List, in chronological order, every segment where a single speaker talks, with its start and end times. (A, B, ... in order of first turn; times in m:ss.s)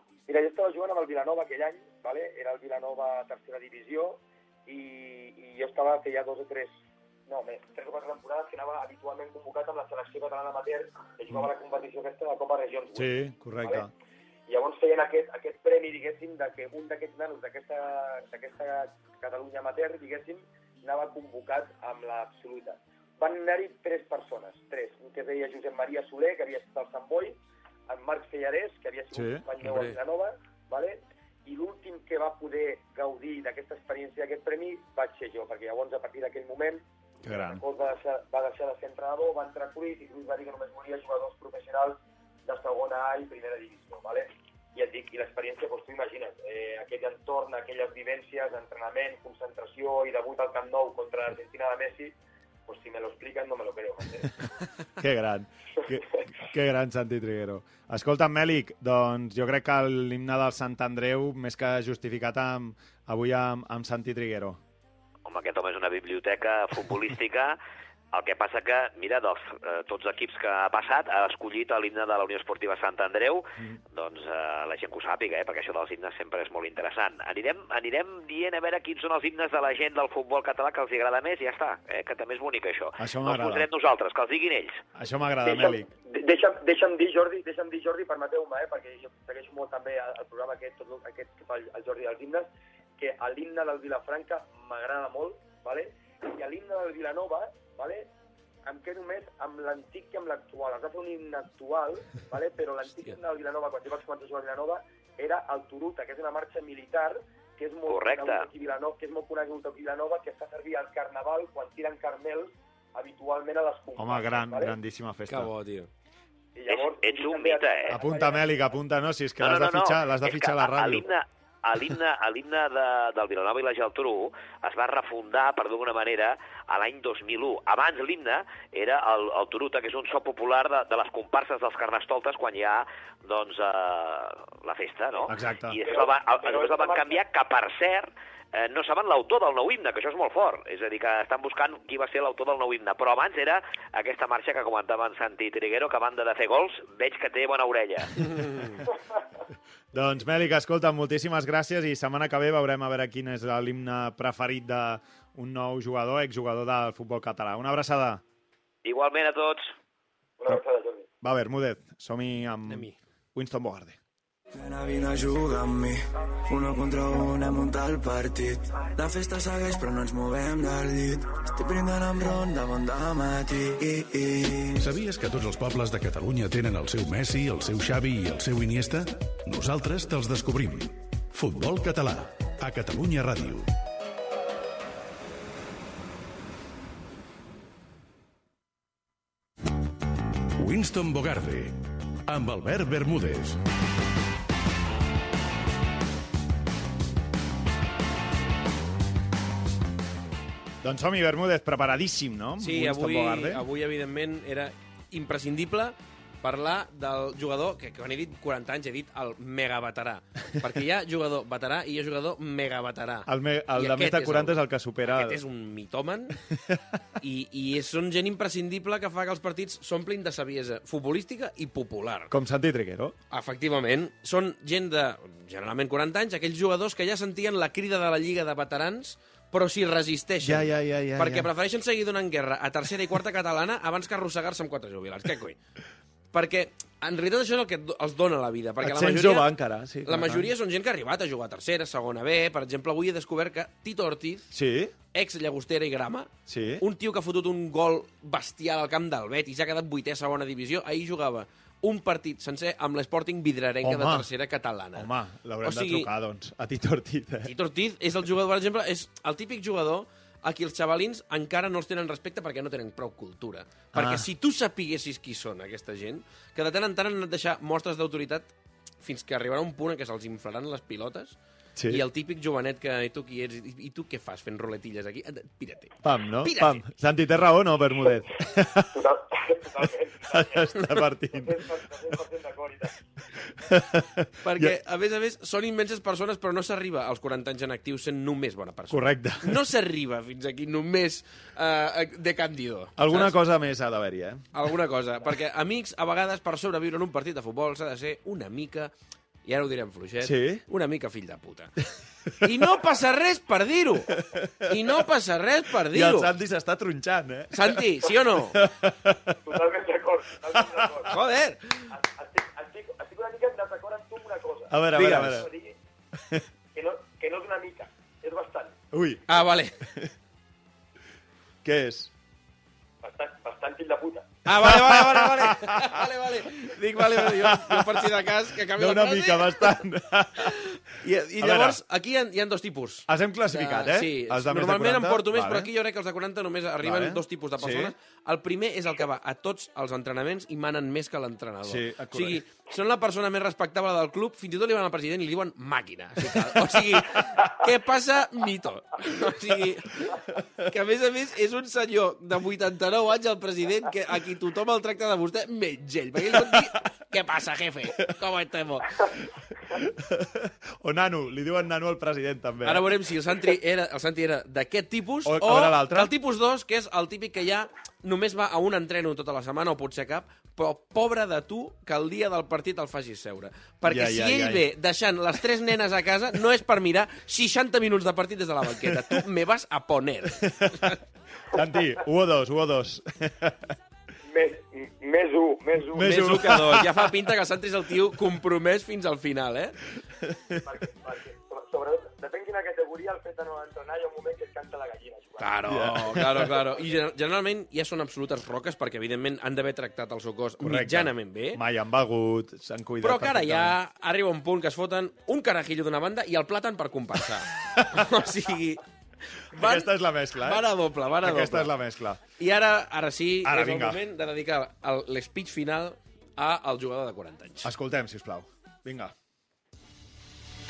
0:00.3-0:13.9 A
0:13.0-0:13.9 B
0:14.5-0:52.1 A
0:29.1-0:29.4 B
0:37.2-0:37.6 B
0:52.7-0:54.3 A
0:55.0-1:04.6 B
1:05.3-1:07.6 C
1:08.1-1:24.8 C
1:23.0-1:23.7 B
1:25.0-1:25.9 B
1:25.4-1:38.1 A
1:38.6-1:54.8 A
1:47.9-1:48.5 C
1:54.0-1:55.5 B
1:55.3-1:55.9 D
1:56.6-1:58.7 A
1:56.7-1:58.0 C
1:57.9-2:01.1 B
1:59.4-2:28.9 C
2:15.3-2:15.8 B
2:15.8-2:17.2 A
2:29.9-2:38.2 B
2:38.8-2:39.7 C
2:40.4-2:41.1 A
2:41.2-2:44.0 B
2:42.7-2:43.0 D
2:44.5-2:54.9 E
2:54.8-3:03.7 F
3:10.6-3:11.8 F
3:12.3-3:13.6 F
3:20.8-3:23.6 B
3:22.6-3:36.4 D
3:33.3-3:35.4 B
3:37.2-3:42.3 D
3:42.3-3:43.2 B
3:43.3-3:55.6 D
3:50.4-3:51.5 B
3:56.3-3:59.5 D
3:58.8-4:00.5 B
4:00.1-4:04.5 D
4:04.5-4:04.9 B
4:05.1-4:15.1 D
4:06.5-4:06.8 B
4:13.8-4:14.3 B
4:15.0-4:17.5 B
4:15.6-4:16.1 D
4:17.4-4:28.5 D
4:23.9-4:24.3 B
4:29.0-4:36.8 D
4:31.8-4:32.0 B
4:36.0-4:39.1 B
4:38.9-4:40.7 A
4:40.3-4:41.8 B
4:40.8-4:41.1 D
4:41.3-4:43.0 A
4:43.6-4:44.8 B
4:44.4-4:53.4 D
4:48.9-4:49.6 B
4:53.0-4:54.4 B
4:54.5-4:58.9 D
4:59.4-5:06.3 D
5:00.2-5:00.6 B
5:04.1-5:05.0 B
5:05.9-5:07.8 B
5:07.5-5:08.6 D
5:08.5-5:09.4 B
5:09.4-5:11.2 A
5:10.6-5:10.8 B
5:11.1-5:11.9 D
5:11.9-5:15.8 A
5:14.7-5:15.5 B
5:14.9-5:15.5 D
5:16.2-5:16.4 B
5:16.7-5:18.8 A
5:18.9-5:19.3 B
5:19.3-5:19.8 D
5:19.8-5:20.1 B
5:21.6-5:22.1 B
5:23.0-5:24.3 A
5:24.5-5:29.8 D
5:24.6-5:26.2 B
5:26.9-5:31.8 B
5:30.4-5:59.1 D
5:33.1-5:35.7 B
5:36.8-5:37.9 B
5:41.6-5:42.4 B
5:46.2-5:47.4 B
5:56.4-5:56.6 B
5:59.7-6:02.9 B
6:02.6-6:21.0 D
6:05.2-6:06.1 B
6:13.8-6:14.6 B
6:18.9-6:19.2 B
6:20.4-6:21.0 B
6:21.5-6:23.6 B
6:24.3-6:26.3 A
6:25.9-6:27.1 B
6:26.0-6:29.8 D
6:30.2-6:30.6 B
6:30.6-6:35.7 A
6:35.4-6:41.6 D
6:35.7-6:36.6 B
6:40.6-6:43.8 B
6:43.0-6:48.8 D
6:47.6-6:48.0 B
6:49.5-6:51.7 D
6:49.6-6:50.6 B
6:51.2-6:52.2 B
6:52.4-6:57.7 D
6:53.4-6:54.0 B
6:57.6-6:59.1 B